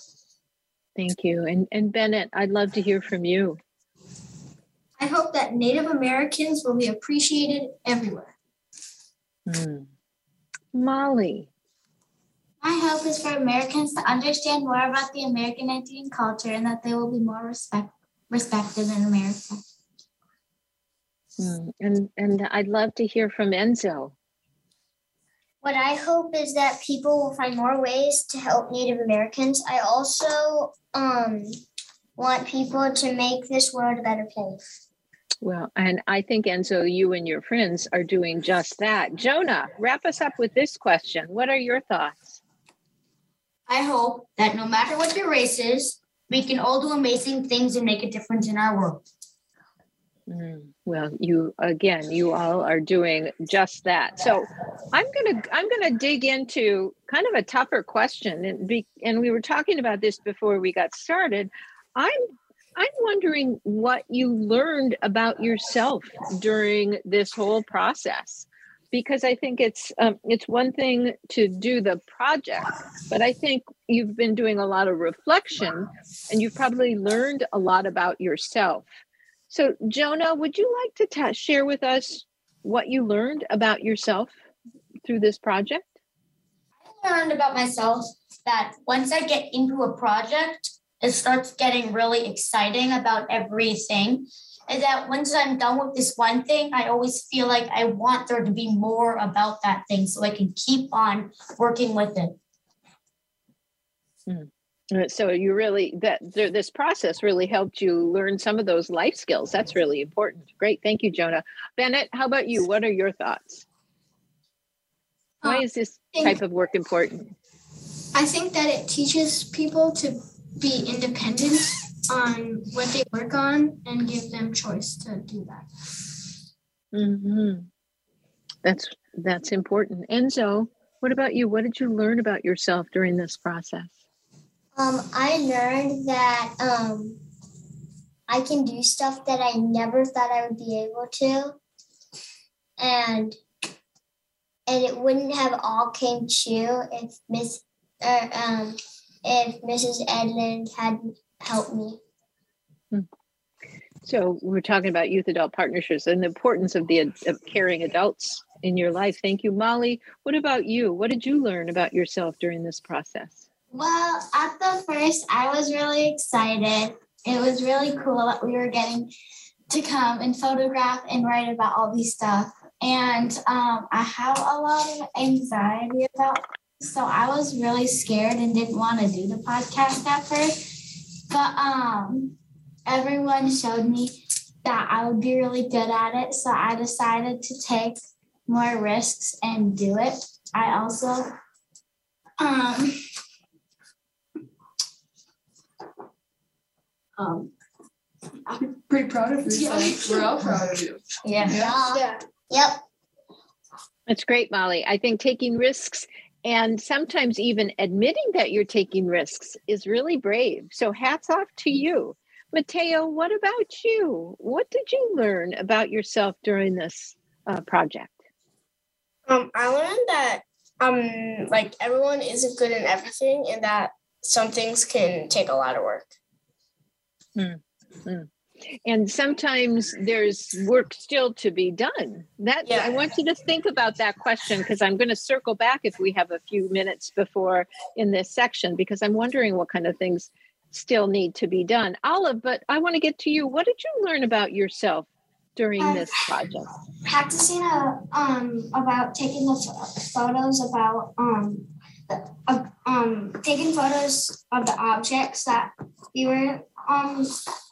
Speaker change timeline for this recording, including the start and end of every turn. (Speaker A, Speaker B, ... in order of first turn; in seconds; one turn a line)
Speaker A: 0.9-3.6
Speaker B: 5.0-8.3
Speaker A: 9.5-9.9
Speaker A: 10.7-11.5
Speaker C: 12.6-19.6
Speaker A: 21.4-24.1
Speaker D: 25.6-31.6
Speaker D: 32.2-34.6
Speaker A: 35.4-42.4
Speaker E: 43.7-49.0
Speaker A: 50.3-62.2
Speaker A: 62.8-78.9
Speaker A: 79.5-84.3
Speaker A: 85.0-86.0
Speaker E: 86.8-102.4
Speaker A: 104.3-113.6
Speaker B: 115.4-116.4
Speaker A: 115.4-117.3
Speaker B: 118.1-125.7
Speaker A: 126.9-127.7
Speaker A: 128.6-134.0
Speaker D: 134.7-137.2
Speaker D: 138.3-141.6
Speaker D: 142.8-143.4
Speaker D: 144.7-152.0
Speaker A: 154.0-163.4
Speaker C: 163.7-169.1
Speaker C: 169.7-191.3
Speaker C: 192.4-193.0
Speaker C: 197.2-197.5
Speaker F: 198.6-201.7
Speaker C: 199.5-200.1
Speaker C: 201.3-201.7
Speaker E: 201.4-202.0
Speaker D: 201.9-202.8
Speaker A: 204.1-218.2
Speaker G: 219.3-226.1
Speaker A: 227.3-228.3
Speaker A: 228.8-246.7
Speaker G: 232.6-232.9
Speaker H: 245.8-246.1
Speaker H: 247.0-257.3